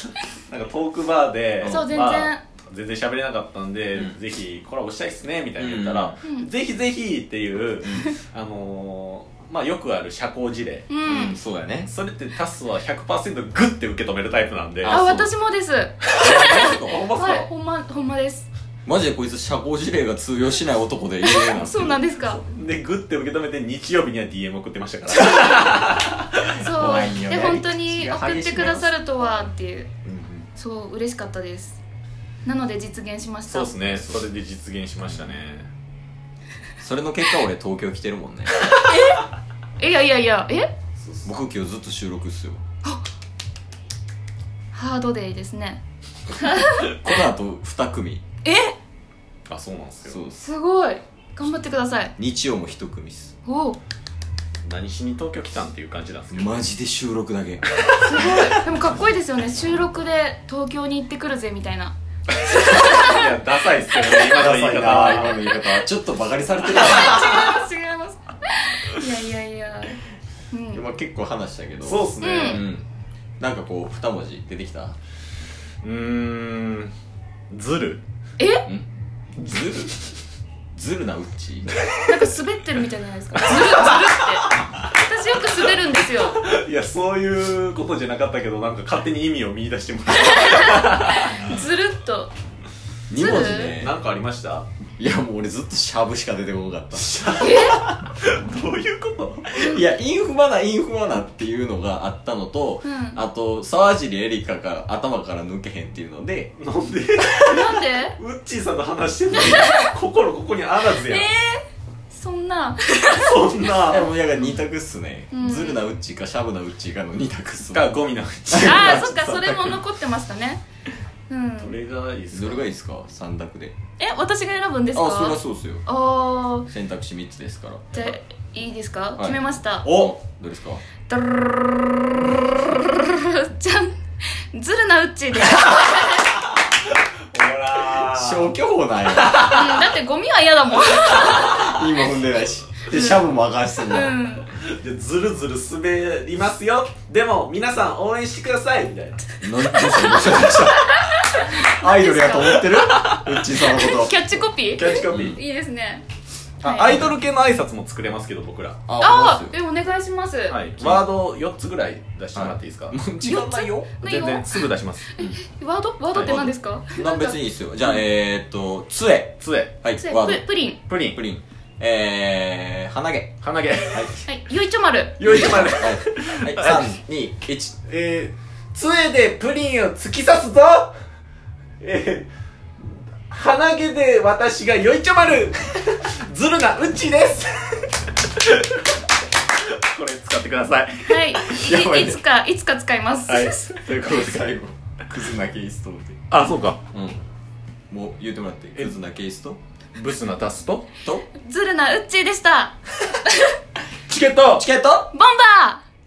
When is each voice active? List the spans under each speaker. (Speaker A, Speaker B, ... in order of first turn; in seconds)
Speaker A: 0.5-10.9, 11.8-15.0, 16.1-16.4, 22.2-26.6, 30.0-30.5, 33.5-35.7, 41.0-41.3, 49.5-50.2, 54.6-56.6, 62.3-65.4, 66.7-67.5, 71.8-72.7, 75.8-76.9, 77.5-78.0, 83.5-84.1, 86.2-91.6, 93.2-94.7, 96.9-99.7, 106.6-111.3, 113.1-114.1, 117.7-119.1, 121.6-122.7, 129.8-130.2, 135.9-136.3, 137.3-138.5, 139.1-139.9, 144.5-149.2, 152.9-153.4, 154.7-155.4, 156.6-158.8, 160.5-163.0, 164.0-165.1, 166.1-166.5, 169.4-169.7, 170.9-171.2, 173.4-174.2, 175.2-176.9, 177.9-180.9, 181.8-182.3, 183.3-189.0, 189.6-191.4, 193.3-194.5, 196.3-196.8, 199.9-200.9, 204.1-204.6
Speaker B: 1.6-2.0, 5.6-6.1, 11.0-11.9, 14.8-15.3, 16.1-17.5, 18.9-22.0, 26.6-28.9, 35.0-35.4, 36.8-38.6, 41.2-42.6, 46.8-48.2, 50.0-50.4, 52.2-53.3, 56.3-57.6, 64.2-67.4, 70.7-72.8, 73.4-75.0, 78.7-79.9, 80.7-81.8, 93.1-94.0, 95.0-97.9, 99.6-106.5, 113.9-117.9, 118.5-119.8, 122.3-123.7, 124.9-125.8, 126.7-127.9, 129.2-130.8, 137.9-139.4, 141.2-144.2, 149.4-154.4, 155.1-155.4, 156.7-157.2, 158.9-159.6, 160.8-161.0, 162.3-163.9, 166.2-173.3, 173.9-174.2, 175.2-177.8, 191.4-192.2, 193.9-196.2, 196.9-197.2, 197.9-199.6, 204.5-205.1
Speaker C: 1.6-2.4, 6.2-6.5, 10.9-11.4, 14.8-18.5, 21.2-22.4, 25.2-25.6, 26.5-29.9, 30.6-31.8, 32.4-34.1, 38.8-39.2, 39.8-40.7, 44.7-45.8, 46.3-46.9, 48.4-48.8, 50.4-52.1, 53.4-53.8, 58.0-63.3, 66.7-70.0, 70.5-70.8, 72.2-72.6, 78.4-78.7, 82.0-86.4, 90.1-92.3, 93.2-93.8, 97.4-97.8, 102.8-103.2, 107.4-108.2, 109.3-109.9, 110.9-113.3, 115.3-115.8, 118.6-120.6, 121.3-121.7, 124.0-126.7, 127.9-129.9, 131.1-132.0, 132.6-136.3, 139.4-141.6, 142.9-143.2, 143.9-144.5, 149.7-152.9, 153.5-156.0, 156.6-157.0, 159.0-160.6, 163.2-167.4, 170.0-170.8, 174.2-175.5, 191.1-193.7, 201.3-203.6, 205.1-205.8